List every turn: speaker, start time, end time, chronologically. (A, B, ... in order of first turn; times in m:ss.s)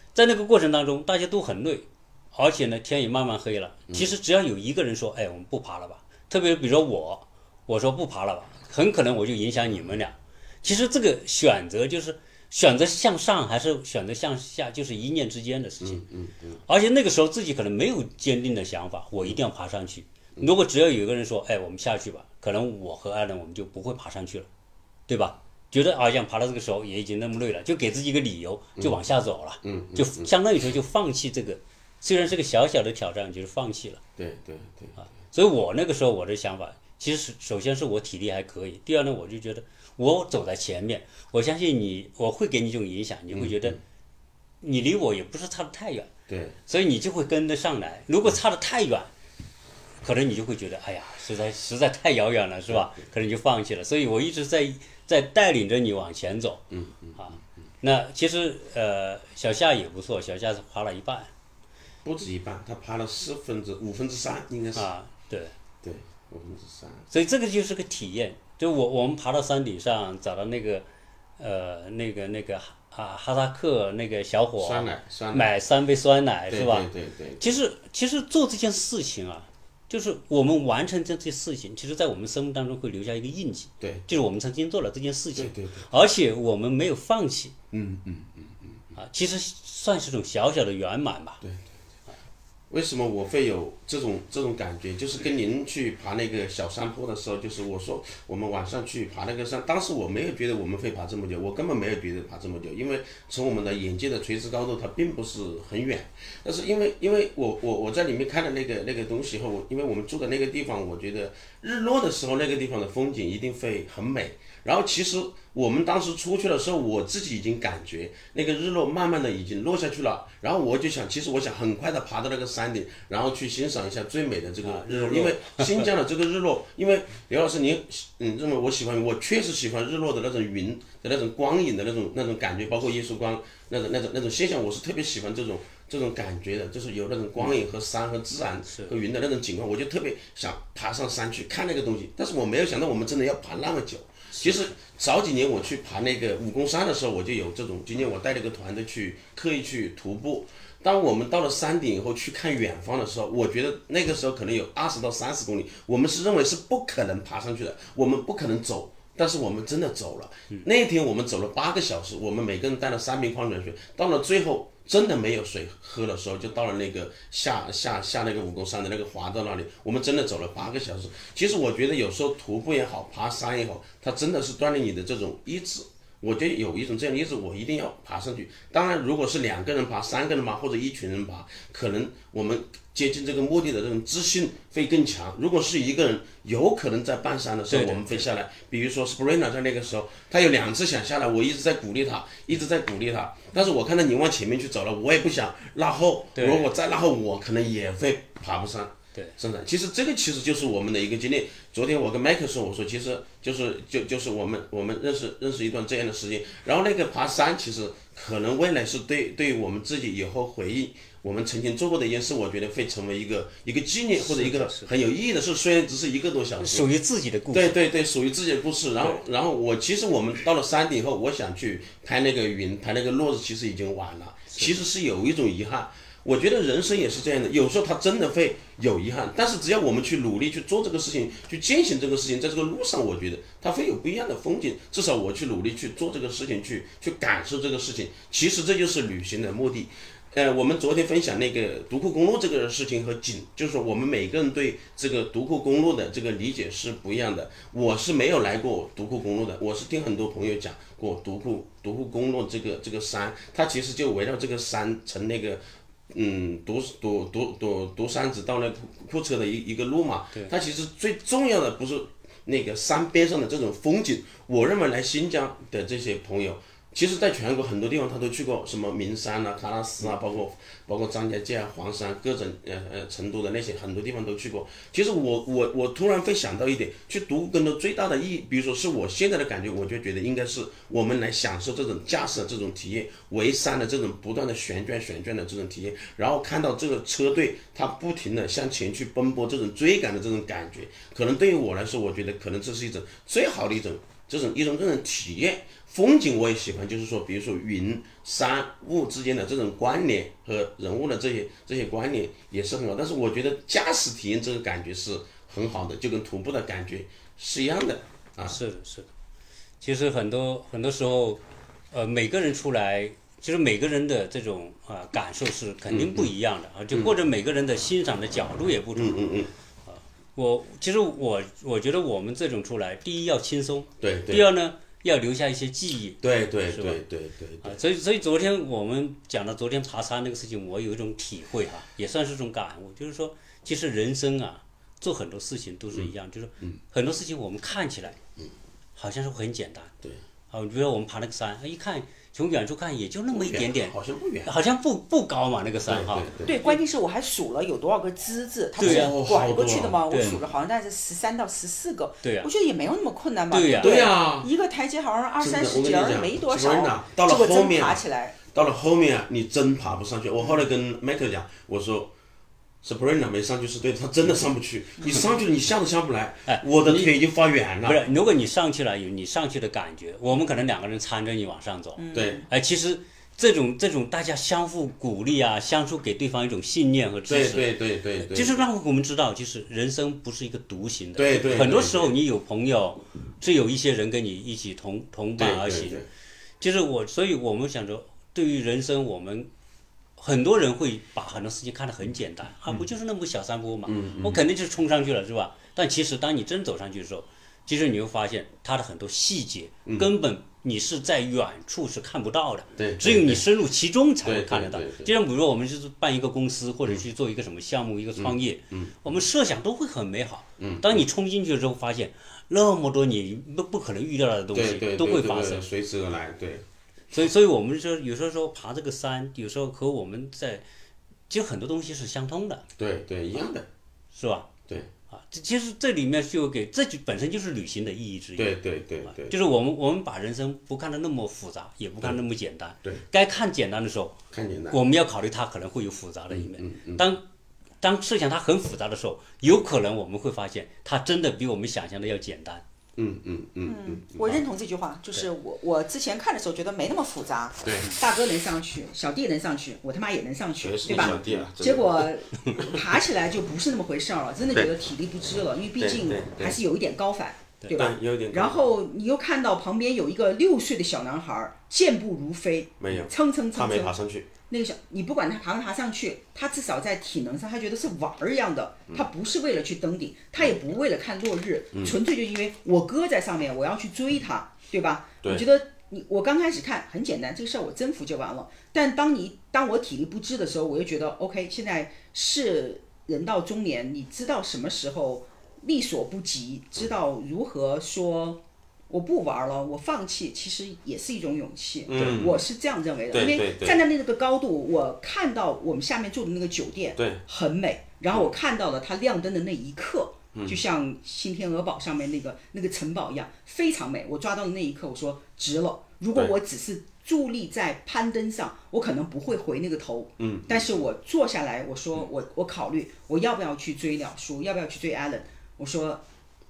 0:00.2-0:16.0 A
0:15.8-0:16.6 B
0:16.7-0:24.5 A
0:25.1-0:34.0 A
0:29.6-0:30.3 B
0:34.2-0:35.0 B
0:35.0-0:43.8 A
0:43.3-0:43.8 B
0:44.6-0:46.1 A
0:46.3-0:46.6 B
0:46.7-0:49.1 A
0:50.0-1:01.3 A
0:56.7-0:57.2 B
1:02.0-1:04.9 B
1:04.8-1:05.5 A
1:05.8-1:07.1 B
1:07.1-1:10.9 A
1:11.4-1:16.9 A
1:14.6-1:15.5 B
1:16.5-1:17.4 B
1:17.4-1:27.5 A
1:23.8-1:24.1 B
1:25.4-1:25.9 B
1:27.7-1:28.8 B
1:29.0-1:31.4 A
1:31.4-1:31.7 B
1:32.7-3:36.9 B
2:04.6-2:05.9 A
2:18.7-2:19.0 A
2:24.3-2:24.6 A
3:07.7-3:08.2 A
3:16.4-3:16.7 A
3:34.2-3:34.9 A
3:36.6-3:37.8 A
3:37.5-5:08.6 B
5:08.4-5:09.1 A
5:09.8-5:19.2 A
5:15.9-5:16.3 B
5:19.0-5:19.5 B
5:19.9-5:27.0 A
5:24.0-5:24.5 B
5:26.2-5:27.8 B
5:27.6-5:38.2 A
5:35.9-5:36.8 B
5:39.0-5:39.9 A
5:40.5-5:46.8 A
5:43.3-5:44.5 B
5:45.9-5:46.6 B
5:46.4-5:58.4 C
5:48.8-5:49.2 A
5:48.8-5:50.5 B
5:50.1-5:50.4 A
5:52.2-5:52.5 A
5:53.5-5:54.0 A
5:53.8-5:54.5 B
5:55.4-6:02.1 B
6:02.8-6:08.0 B
6:06.5-6:07.1 A
6:07.8-6:26.0 A
6:12.0-6:12.5 C
6:12.1-6:12.4 B
6:17.3-6:18.6 B
6:21.2-6:22.1 B
6:25.4-6:26.1 B
6:26.6-6:29.5 A
6:30.2-6:55.7 A
6:33.9-6:34.4 B
6:42.8-6:43.4 B
6:44.2-6:45.1 B
6:48.2-6:49.0 B
6:50.6-6:51.0 B
6:54.5-6:56.6 B
6:57.1-7:00.6 A
7:01.3-7:02.7 A
7:02.8-7:03.7 B
7:04.1-7:04.5 A
7:05.1-7:14.2 A
7:08.4-7:09.4 B
7:14.3-7:14.8 B
7:14.7-7:17.2 A
7:16.3-7:17.1 B
7:17.8-7:22.6 A
7:23.0-7:24.4 B
7:23.7-7:43.9 C
7:27.6-7:27.9 B
7:30.6-7:32.8 B
7:30.9-7:31.4 A
7:35.8-7:36.6 B
7:37.7-7:38.6 B
7:42.8-7:44.3 B
7:44.5-8:36.0 C
8:11.9-8:12.4 B
8:12.0-8:12.2 A
8:13.1-8:13.8 B
8:17.0-8:17.2 B
8:20.3-8:20.6 B
8:30.2-8:30.8 B